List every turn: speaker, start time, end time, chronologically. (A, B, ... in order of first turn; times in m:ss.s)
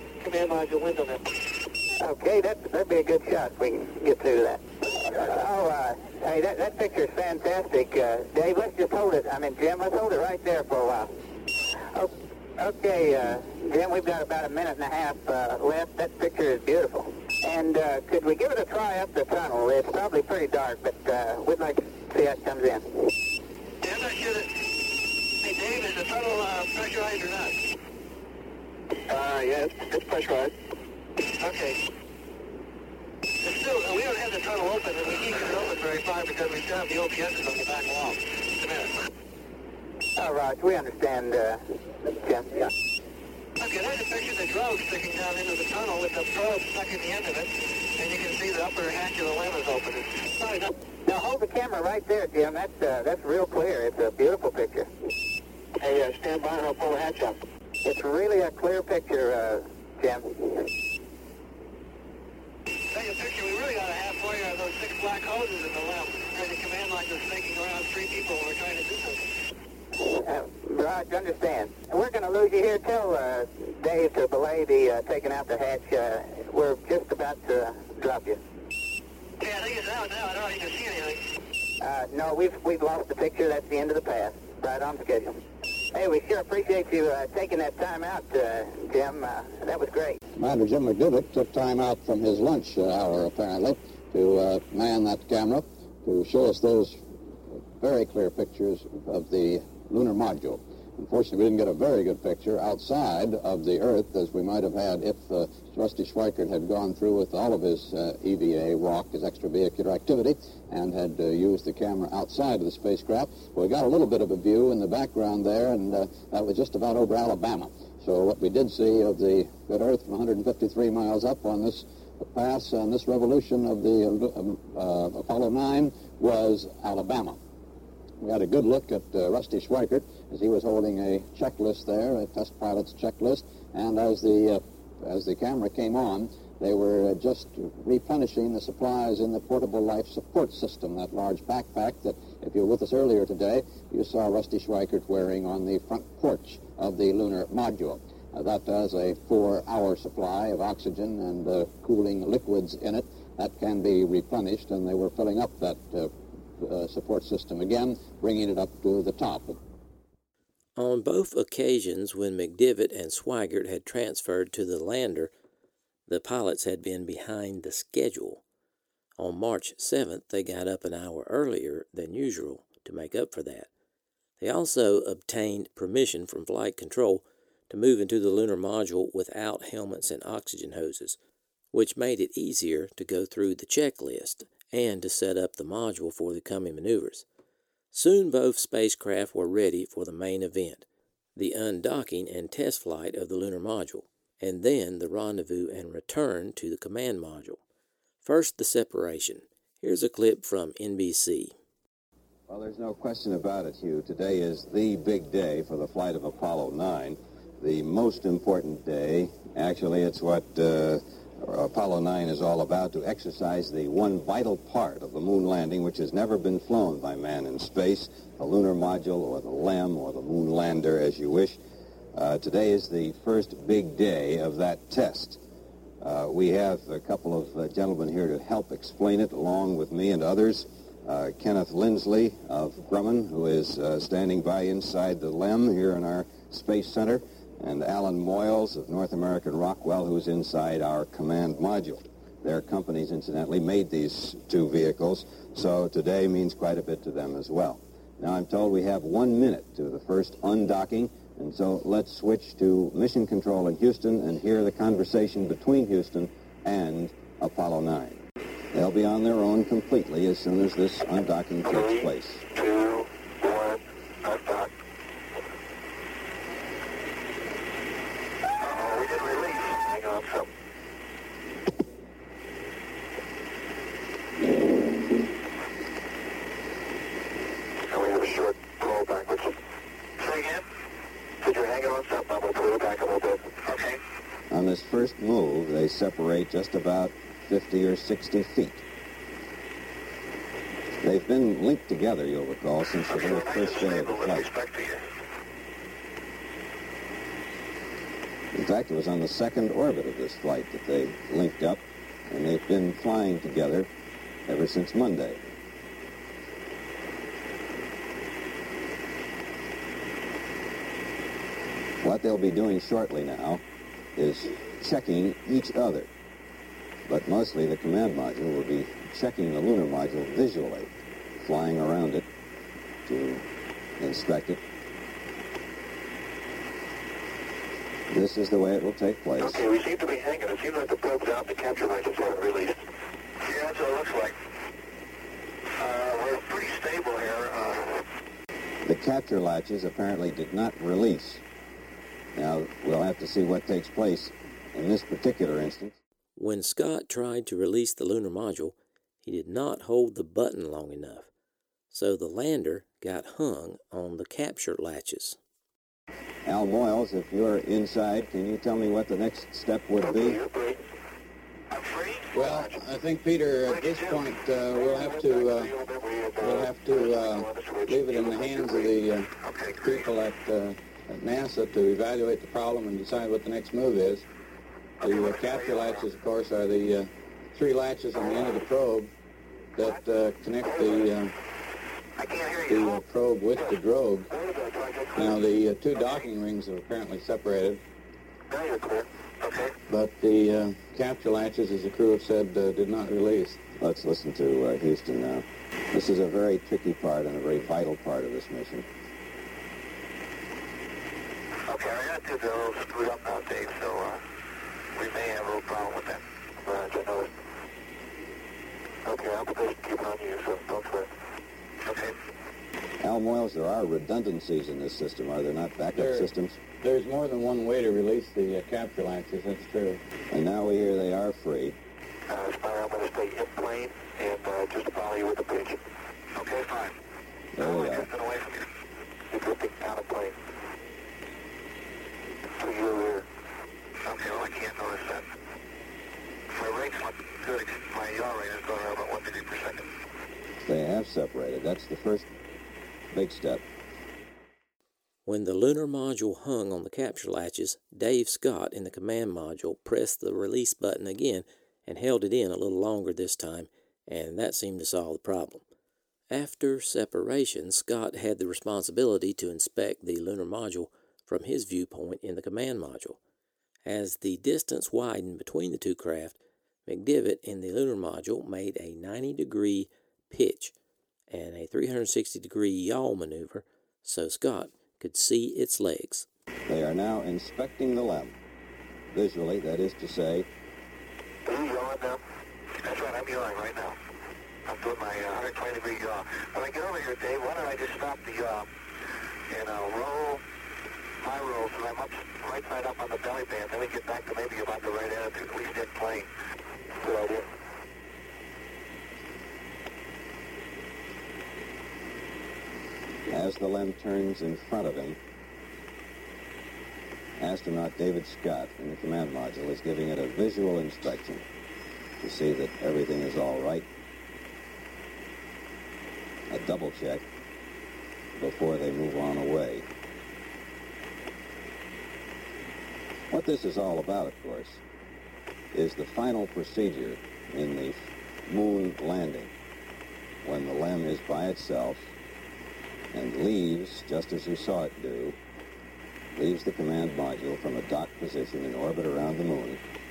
0:00.2-0:01.3 A
0:02.0-0:11.2 B
0:11.9-0:23.1 B
0:23.8-0:24.7 A
0:25.4-0:27.6 A
0:29.1-0:30.5 A
0:31.4-0:31.8 A
0:33.4-0:39.0 A
0:40.2-0:42.7 B
0:43.6-0:50.7 A
0:51.0-0:54.9 B
0:55.8-0:57.4 A
0:57.8-1:00.7 B
1:02.9-1:09.3 A
1:10.0-1:18.4 B
1:19.4-1:21.2 A
1:21.8-1:25.4 B
1:25.9-1:30.2 B
1:30.4-2:07.4 C
2:08.2-2:39.6 C
2:40.8-2:45.3 D
2:46.1-2:48.4 D
2:49.2-2:53.7 D
2:54.4-3:01.2 D
3:01.7-3:07.2 D
3:07.9-3:10.8 D
3:11.4-3:17.6 D
3:18.2-3:21.5 D
3:22.5-3:41.6 E
3:42.1-3:45.4 E
3:46.0-4:18.2 E
4:18.7-4:22.4 E
4:21.6-4:24.7 F
4:28.6-4:30.5 F
4:37.8-4:39.5 F
4:40.2-4:40.6 F
4:41.4-4:44.0 F
4:44.5-4:48.8 E
4:51.0-4:54.5 E
4:53.1-4:55.0 F
4:58.5-5:03.9 E
5:04.5-5:05.4 E
5:12.0-5:13.6 E
5:14.2-5:16.1 E
5:17.1-5:20.9 E
5:21.4-5:22.2 E
5:23.1-5:23.4 E
5:24.0-5:24.6 E
5:28.1-5:29.6 E
5:29.4-5:32.8 F
5:33.4-5:34.4 F
5:35.8-5:38.0 F
5:38.8-5:41.4 E
5:42.4-5:46.0 E
5:46.4-5:51.3 D
5:51.9-5:55.4 D
5:56.4-6:00.4 E
6:00.0-6:00.8 F
6:01.7-6:02.9 F
6:02.3-6:05.7 G
6:03.6-6:10.1 F
6:06.4-6:14.2 G
6:15.0-6:16.1 F
6:15.0-6:19.1 G
6:18.1-6:18.6 F
6:19.8-6:21.3 G
6:19.8-6:20.0 F
6:20.6-6:21.1 F
6:22.2-6:26.3 F
6:22.7-6:24.3 G
6:25.2-6:27.8 G
6:28.5-6:29.8 F
6:29.9-6:33.6 G
6:33.8-6:38.9 E
6:41.7-6:44.2 F
6:45.0-6:47.3 F
6:49.0-6:51.1 F
6:51.8-6:52.2 F
6:53.0-6:56.6 E
6:56.0-6:56.3 G
6:56.8-7:00.0 G
7:00.3-7:01.8 E
7:02.3-7:05.8 F
7:06.3-7:07.0 F
7:07.6-7:08.1 E
7:07.6-7:08.6 F
7:09.3-7:10.4 F
7:12.6-7:13.2 F
7:14.0-7:15.3 F
7:16.5-7:19.9 F
7:20.6-7:22.3 E
7:23.1-7:23.6 E
7:25.2-7:35.6 D
7:36.3-7:43.2 D
7:43.9-7:50.7 D
7:51.3-7:56.3 D
7:56.7-7:58.4 E
7:59.1-8:00.5 E
8:01.4-8:02.2 F
8:02.8-8:04.0 F
8:04.6-8:08.7 F
8:09.5-8:10.4 F
8:11.2-8:16.3 F
8:17.0-8:17.5 F
8:23.3-8:25.2 E
8:27.4-8:31.4 E
8:32.2-8:33.8 E
8:36.5-8:37.2 E
8:38.4-8:39.9 E
8:43.3-8:44.8 E
8:45.7-8:49.5 E
8:50.4-8:52.1 E
8:53.1-8:55.4 E
8:56.3-8:59.8 E